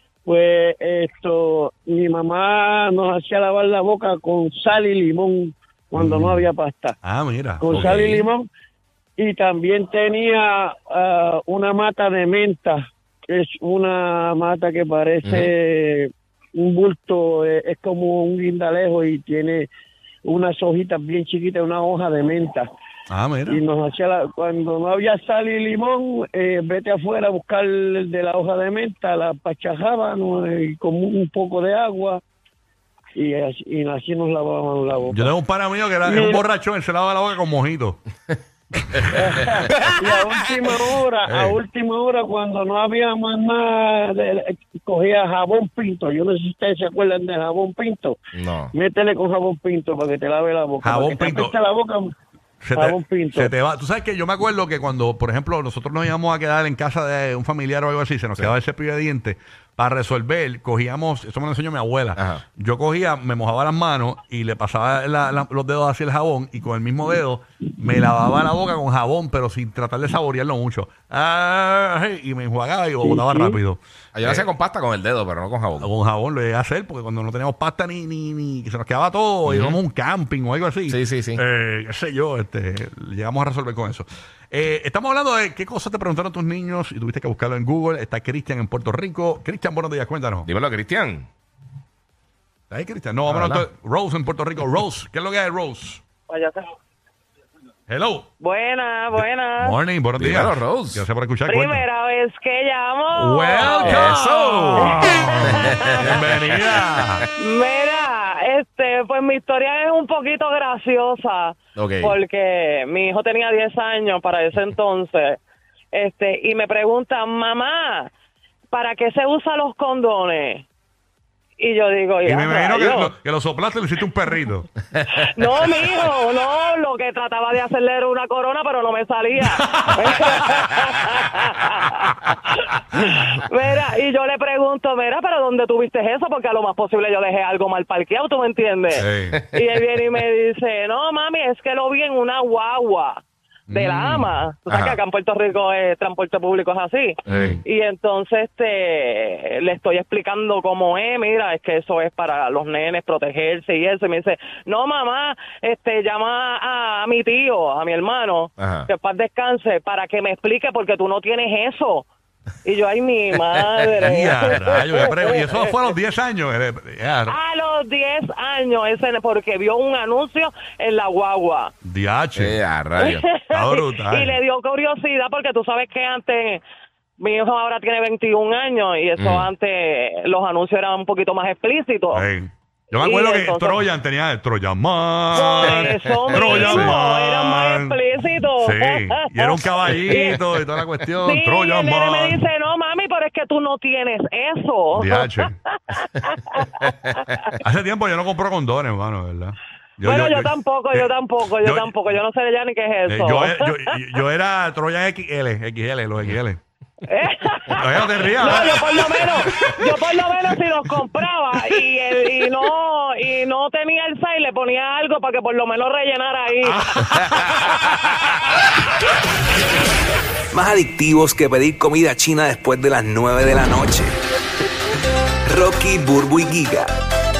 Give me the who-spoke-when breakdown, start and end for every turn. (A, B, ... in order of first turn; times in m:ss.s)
0:00.2-0:07.0 A
0:06.0-0:06.5 B
0:07.0-0:08.3 B
0:07.6-0:08.5 A
0:09.2-0:19.7 A
0:15.2-0:15.5 C
0:20.2-0:22.6 A
0:23.1-0:23.6 B
0:23.5-0:32.2 A
0:33.2-0:35.3 A
0:35.0-0:38.0 B
0:36.0-0:36.4 A
0:38.8-0:39.4 B
0:39.1-0:48.2 A
0:41.3-0:41.6 B
0:48.3-0:48.7 C
0:48.7-0:52.1 A
0:50.8-0:51.6 B
0:52.6-1:14.4 B
0:52.7-0:53.5 A
1:02.2-1:02.4 C
1:13.0-1:13.5 A
1:14.1-1:15.9 C
1:15.8-1:30.5 B
1:19.5-1:19.8 C
1:20.9-1:21.4 C
1:30.4-1:31.3 C
1:32.7-1:36.0 B
1:33.3-1:33.6 C
1:36.3-1:36.8 D
1:37.9-1:38.3 B
1:38.4-1:39.8 D
1:39.1-1:41.8 B
1:40.2-1:41.1 C
1:41.5-1:46.2 D
1:43.1-1:47.2 B
1:43.8-1:45.0 C
1:45.6-1:47.0 C
1:47.4-1:55.4 D
1:51.8-1:52.2 C
1:55.9-1:58.1 D
1:58.7-2:00.6 D
2:01.6-2:03.1 D
2:02.2-2:04.7 B
2:05.1-2:42.1 D
2:09.4-2:10.3 B
2:18.9-2:19.4 B
2:23.7-2:25.0 B
2:27.3-2:27.6 B
2:38.6-2:38.9 C
2:42.6-2:45.7 D
2:43.4-2:44.0 C
2:44.0-2:47.3 B
2:47.3-2:51.7 D
2:51.8-2:52.6 B
2:52.4-2:53.2 C
2:53.0-2:56.6 D
2:53.5-2:54.4 B
2:57.2-3:02.2 D
2:59.2-2:59.5 C
3:02.1-3:08.0 B
3:03.0-3:03.8 D
3:05.3-3:10.4 D
3:05.6-3:06.9 C
3:08.6-3:12.4 B
3:11.2-3:17.5 D
3:15.0-3:15.5 B
3:17.6-3:21.9 B
3:20.0-3:24.0 D
3:23.1-3:26.6 B
3:27.1-3:37.0 D
3:27.8-3:29.9 B
3:36.6-3:37.8 B
3:37.9-3:38.2 D
3:40.5-3:44.2 E
3:45.4-3:46.9 E